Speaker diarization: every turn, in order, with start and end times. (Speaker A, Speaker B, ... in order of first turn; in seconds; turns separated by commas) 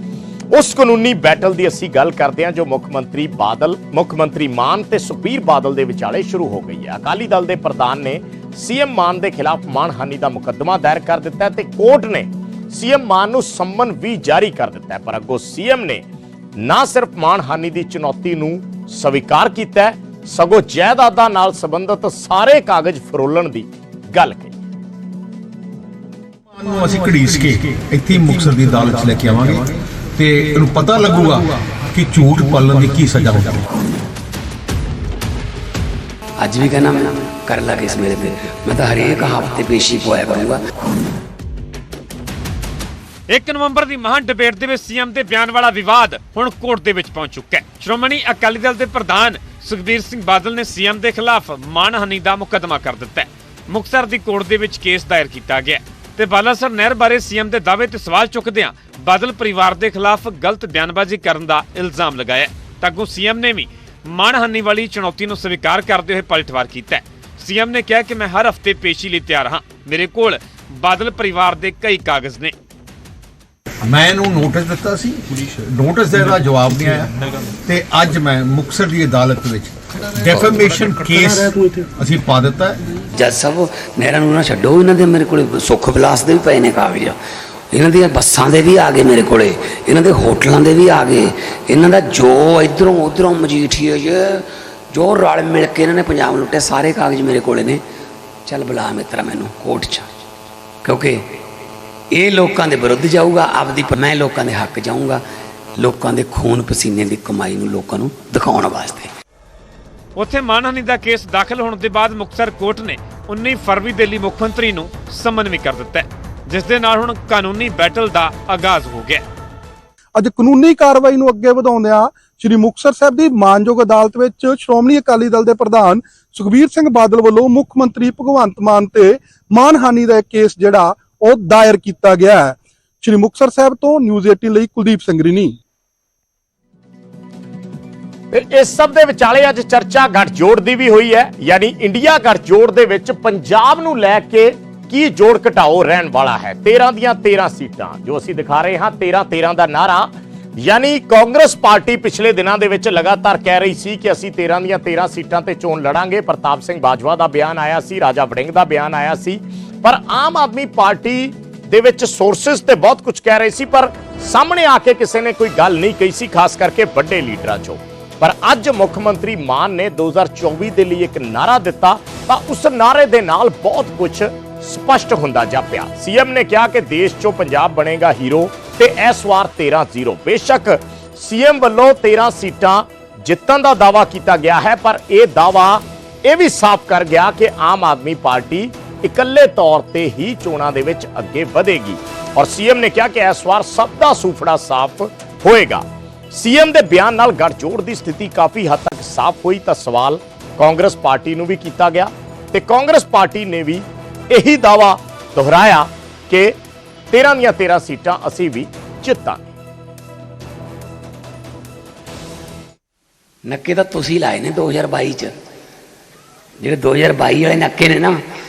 Speaker A: 0.5-16.0, Speaker A: 16.6-24.6, Speaker B: 26.5-33.6, Speaker C: 36.4-40.6, Speaker D: 43.3-72.5, Speaker B: 73.8-77.1, Speaker B: 77.6-82.8, Speaker C: 83.1-87.2, Speaker C: 87.7-97.8, Speaker C: 98.5-100.1, Speaker C: 100.8-101.2, Speaker C: 102.1-105.2, Speaker C: 105.8-109.1, Speaker D: 110.2-119.2, Speaker E: 120.1-135.6, Speaker A: 138.3-206.5, Speaker A: 207.1-209.5, Speaker C: 213.4-215.3, Speaker C: 216.6-218.2